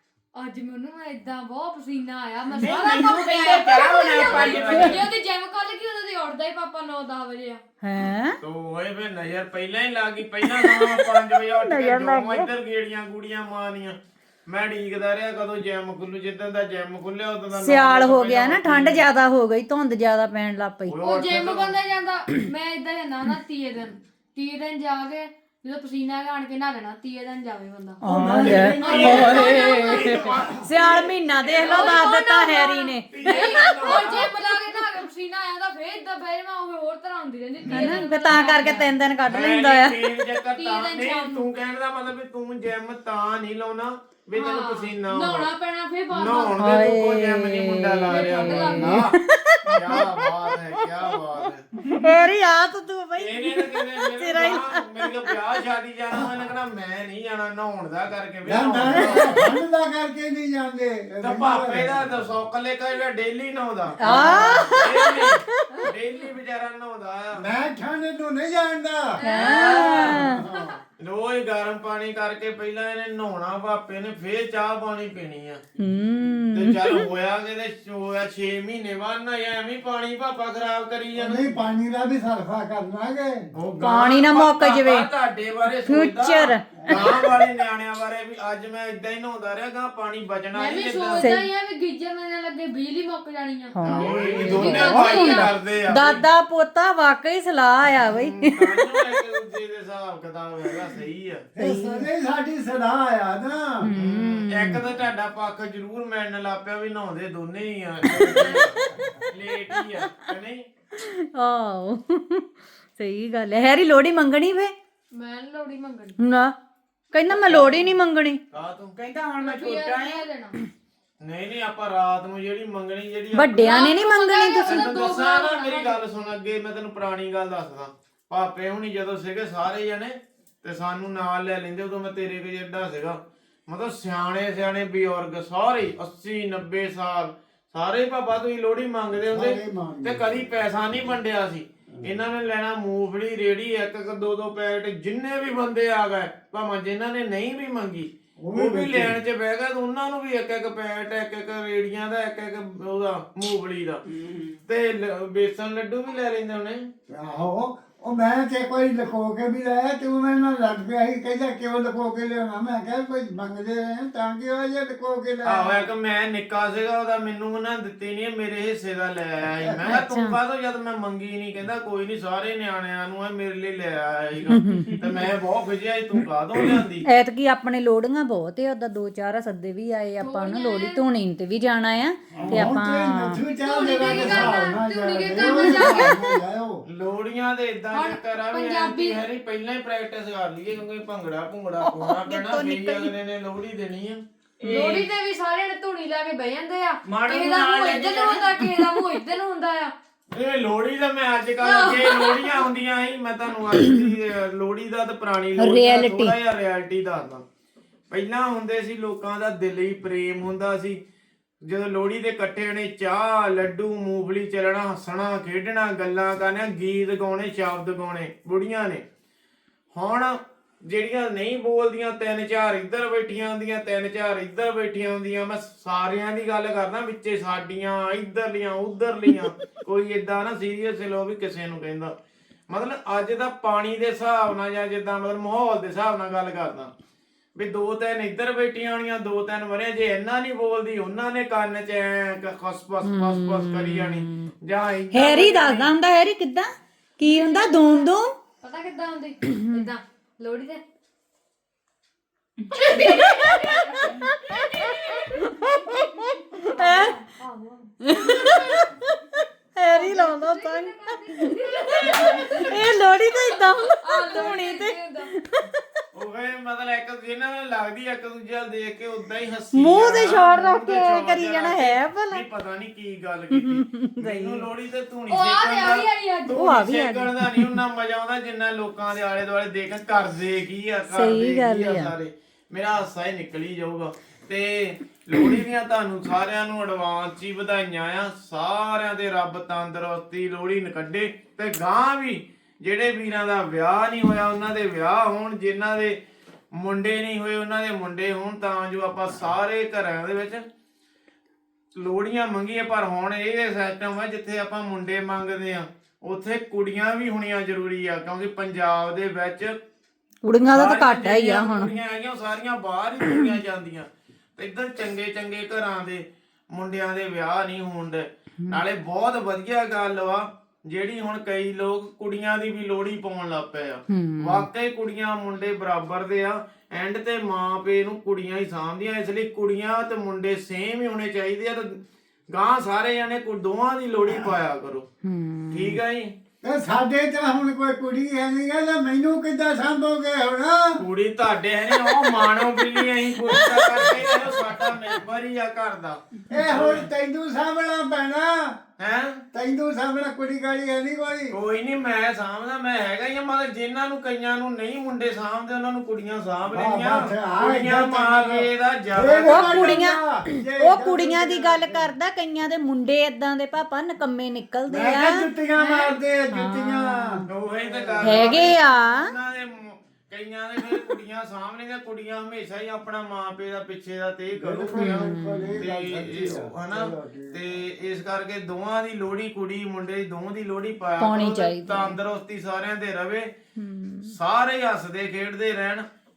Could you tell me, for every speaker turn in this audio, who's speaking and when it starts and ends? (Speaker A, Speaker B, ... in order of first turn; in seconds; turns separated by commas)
Speaker A: 0.3-7.6, Speaker B: 2.5-5.0, Speaker C: 4.2-5.1, Speaker D: 7.8-8.4, Speaker C: 8.4-19.1, Speaker D: 10.4-12.5, Speaker D: 17.5-21.0, Speaker C: 20.9-21.8, Speaker A: 21.0-28.0, Speaker D: 28.0-33.8, Speaker E: 28.1-29.5, Speaker C: 28.3-32.1, Speaker A: 28.7-30.2, Speaker A: 31.5-38.9, Speaker C: 33.1-34.4, Speaker C: 37.6-38.1, Speaker D: 37.7-40.0, Speaker C: 39.2-45.5, Speaker A: 40.6-41.4, Speaker A: 44.4-46.6, Speaker C: 46.1-49.1, Speaker D: 46.6-50.3, Speaker A: 48.1-49.0, Speaker C: 49.7-51.6, Speaker D: 51.9-55.2, Speaker C: 53.2-59.5, Speaker E: 58.4-62.0, Speaker C: 61.2-67.4, Speaker D: 64.0-65.8, Speaker A: 64.0-64.8, Speaker E: 67.3-69.1, Speaker A: 69.1-70.8, Speaker D: 69.2-70.4, Speaker C: 69.4-70.2, Speaker E: 70.2-70.7, Speaker C: 71.0-75.6, Speaker D: 75.8-77.0, Speaker C: 76.5-81.6, Speaker E: 81.1-83.5, Speaker C: 83.5-91.2, Speaker D: 83.8-85.1, Speaker D: 85.8-87.1, Speaker E: 86.8-87.1, Speaker A: 90.5-95.5, Speaker D: 91.2-91.5, Speaker D: 93.8-98.9, Speaker C: 93.8-96.2, Speaker C: 98.0-101.5, Speaker E: 101.5-103.9, Speaker D: 101.6-102.0, Speaker D: 103.8-104.8, Speaker C: 103.9-108.7, Speaker E: 108.1-109.1, Speaker C: 109.3-110.7, Speaker D: 110.9-112.4, Speaker D: 113.0-114.7, Speaker A: 115.1-116.2, Speaker D: 116.2-116.5, Speaker D: 117.1-118.4, Speaker C: 117.3-117.9, Speaker C: 118.5-118.9, Speaker B: 119.0-120.2, Speaker A: 119.4-120.5, Speaker C: 121.2-123.8, Speaker D: 123.3-124.8, Speaker A: 123.6-126.0, Speaker C: 124.6-154.0, Speaker E: 139.3-140.4, Speaker E: 148.4-149.1, Speaker B: 154.1-154.6, Speaker C: 154.7-156.9, Speaker E: 157.1-165.9, Speaker C: 165.4-177.0, Speaker E: 169.6-169.9, Speaker D: 169.9-170.4, Speaker D: 174.5-175.0, Speaker D: 176.6-183.4, Speaker A: 180.2-181.0, Speaker E: 182.3-186.8, Speaker C: 182.4-182.7, Speaker A: 183.6-186.3, Speaker C: 184.1-184.5, Speaker C: 185.4-185.9, Speaker C: 186.9-194.2, Speaker A: 187.9-189.2, Speaker D: 191.8-193.1, Speaker B: 194.6-195.1, Speaker A: 194.7-199.9, Speaker B: 197.1-198.4, Speaker C: 200.3-207.4, Speaker A: 201.6-202.6, Speaker D: 205.6-206.3, Speaker C: 208.1-211.0, Speaker C: 211.6-219.0, Speaker C: 219.9-232.1, Speaker C: 232.7-236.9, Speaker C: 237.6-245.9, Speaker D: 243.0-244.5, Speaker D: 245.1-248.3, Speaker A: 247.2-250.8, Speaker A: 252.7-256.0, Speaker B: 252.8-253.4, Speaker D: 254.0-257.1, Speaker A: 256.5-258.8, Speaker D: 258.0-258.9, Speaker D: 259.8-265.6, Speaker A: 259.9-265.3, Speaker C: 261.9-262.8, Speaker C: 266.1-296.2, Speaker D: 269.7-272.4, Speaker D: 273.5-274.7, Speaker A: 275.3-276.7, Speaker D: 276.5-277.8, Speaker D: 281.1-282.1, Speaker C: 296.7-300.6, Speaker C: 302.0-309.8, Speaker D: 310.4-311.9, Speaker C: 310.7-332.0, Speaker D: 324.1-324.7, Speaker C: 332.5-335.1, Speaker D: 335.2-336.0, Speaker C: 335.7-336.3, Speaker E: 336.6-341.0, Speaker C: 341.0-347.1, Speaker E: 346.5-348.8, Speaker C: 349.0-349.4, Speaker E: 349.5-351.5, Speaker C: 351.5-360.1, Speaker E: 356.7-362.1, Speaker D: 359.4-367.4, Speaker E: 364.9-368.7, Speaker C: 367.5-383.5, Speaker D: 368.2-369.3, Speaker E: 374.5-377.8, Speaker D: 374.9-375.8, Speaker D: 381.2-382.1, Speaker D: 383.8-384.3, Speaker C: 384.3-386.1